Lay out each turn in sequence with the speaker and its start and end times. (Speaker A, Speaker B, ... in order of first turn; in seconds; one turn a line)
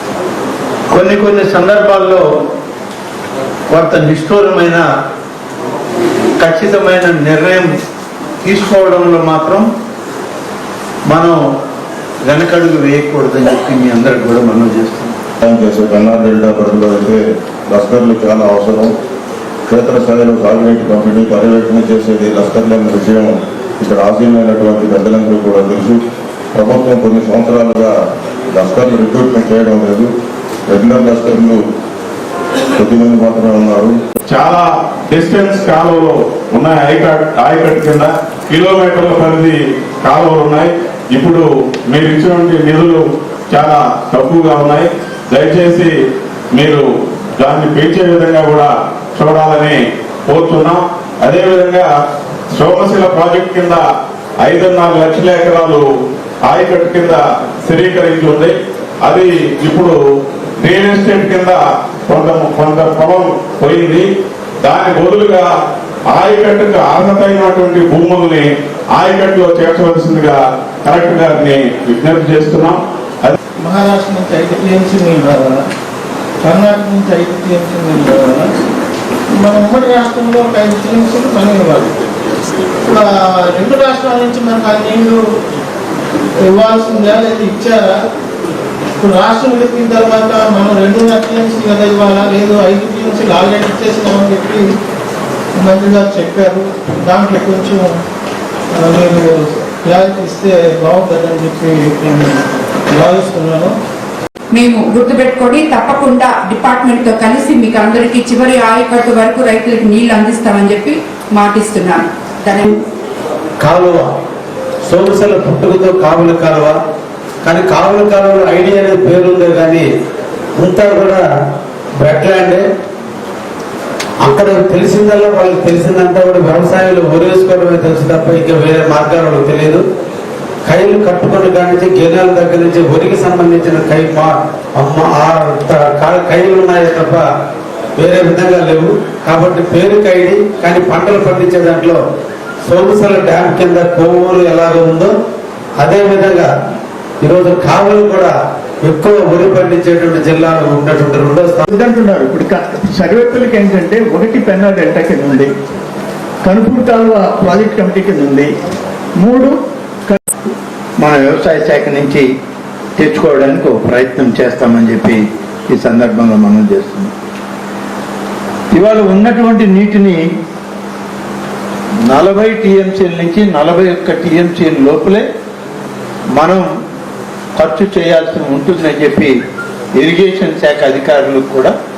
Speaker A: 0.9-2.2
Speaker A: 3.7-4.9
Speaker A: 6.4-7.7
Speaker A: 8.4-9.7
Speaker A: 11.1-11.4
Speaker A: 12.3-15.2
Speaker B: 15.4-18.9
Speaker B: 19.7-27.9
Speaker B: 28.5-30.1
Speaker B: 30.7-31.6
Speaker B: 32.8-34.0
Speaker C: 34.3-45.9
Speaker C: 46.5-46.9
Speaker C: 47.4-51.9
Speaker C: 52.5-53.8
Speaker C: 54.4-55.9
Speaker C: 56.5-60.0
Speaker C: 60.6-64.1
Speaker C: 64.6-65.5
Speaker C: 66.1-73.3
Speaker D: 73.6-75.6
Speaker D: 76.4-78.6
Speaker D: 79.3-81.9
Speaker D: 82.8-85.2
Speaker D: 86.4-88.0
Speaker D: 89.0-94.7
Speaker D: 95.5-98.0
Speaker D: 98.7-103.8
Speaker E: 104.5-112.8
Speaker F: 113.6-114.1
Speaker F: 114.9-116.8
Speaker F: 117.4-119.9
Speaker F: 120.6-121.3
Speaker F: 122.0-122.7
Speaker F: 124.2-129.8
Speaker F: 130.7-137.3
Speaker F: 138.0-142.0
Speaker F: 142.7-145.1
Speaker F: 145.8-146.5
Speaker F: 147.2-151.7
Speaker G: 151.7-155.5
Speaker G: 156.5-158.5
Speaker G: 159.2-159.5
Speaker A: 161.0-162.3
Speaker A: 163.0-167.1
Speaker A: 168.7-170.2
Speaker A: 172.1-175.3
Speaker A: 176.4-176.7
Speaker A: 177.6-179.3
Speaker A: 180.0-181.7